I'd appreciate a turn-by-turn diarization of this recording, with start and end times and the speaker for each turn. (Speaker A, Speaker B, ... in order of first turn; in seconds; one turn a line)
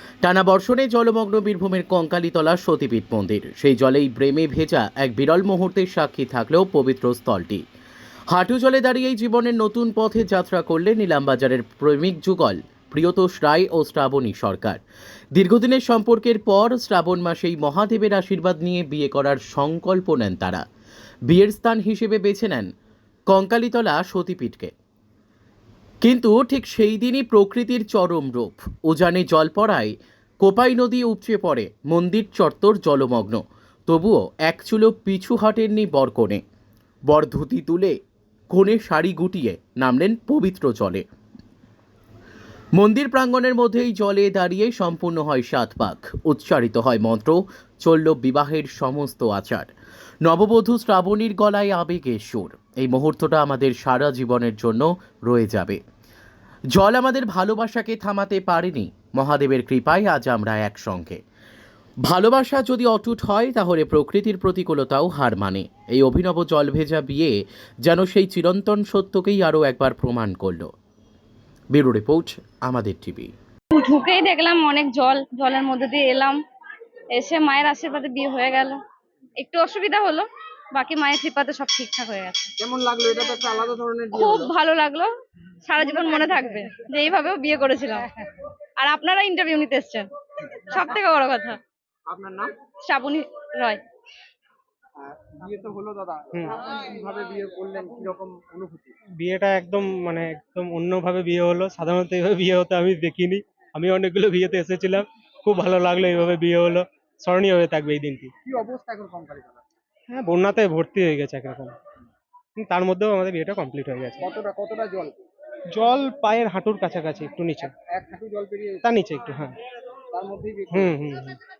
Speaker A: 0.2-7.6
Speaker A: 8.3-14.8
Speaker A: 15.3-20.6
Speaker A: 21.3-22.7
Speaker A: 23.3-24.7
Speaker A: 26.0-36.4
Speaker A: 37.1-37.9
Speaker A: 38.5-41.0
Speaker A: 42.8-49.7
Speaker A: 50.2-55.8
Speaker A: 56.7-61.2
Speaker A: 62.0-70.7
Speaker A: 71.7-73.3
Speaker B: 73.7-76.4
Speaker B: 77.1-78.8
Speaker B: 79.4-82.5
Speaker C: 82.6-84.5
Speaker B: 84.1-85.1
Speaker B: 85.6-88.1
Speaker B: 88.8-90.1
Speaker B: 90.6-91.6
Speaker C: 92.1-92.5
Speaker B: 92.8-93.8
Speaker C: 95.0-99.0
Speaker D: 99.2-108.3
Speaker C: 108.4-109.6
Speaker D: 110.1-111.7
Speaker D: 112.6-114.3
Speaker C: 114.2-115.2
Speaker D: 115.7-117.7
Speaker C: 117.6-118.9
Speaker D: 118.8-119.6
Speaker C: 120.1-121.0
Speaker D: 120.7-121.4